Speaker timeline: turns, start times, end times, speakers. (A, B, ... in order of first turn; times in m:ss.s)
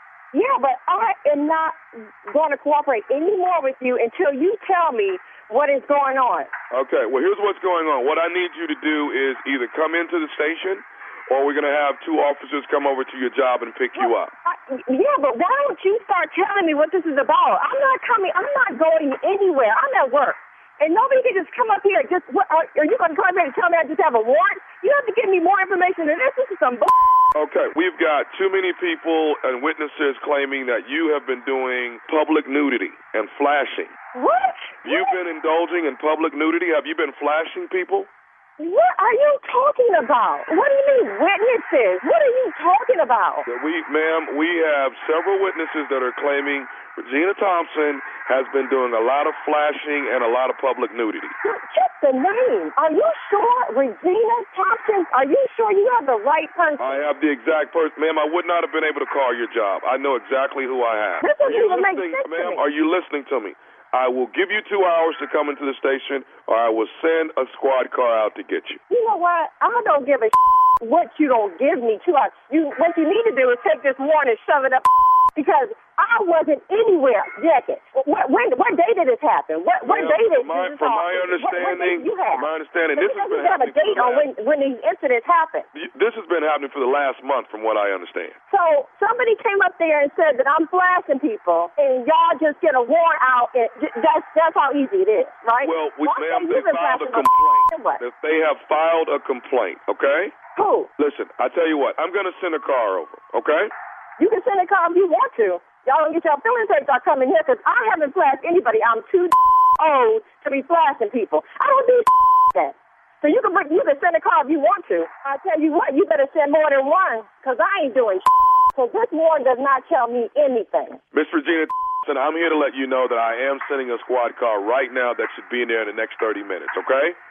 0:00.3-0:06.5 A
0:06.7-0:14.3 B
0:14.0-0:26.9 A
0:27.3-0:33.9 B
0:34.1-0:35.2 A
0:34.8-0:38.1 B
0:38.6-0:43.4 A
0:43.4-0:51.3 B
0:51.4-0:57.0 A
0:56.8-1:08.8 B
1:01.2-1:02.6 A
1:08.9-1:25.7 A
1:19.8-1:24.3 B
1:25.7-1:28.4 B
1:28.5-1:38.0 A
1:35.6-1:40.3 B
1:40.6-1:40.9 A
1:41.0-1:43.7 B
1:44.2-2:01.0 A
2:01.1-2:07.2 B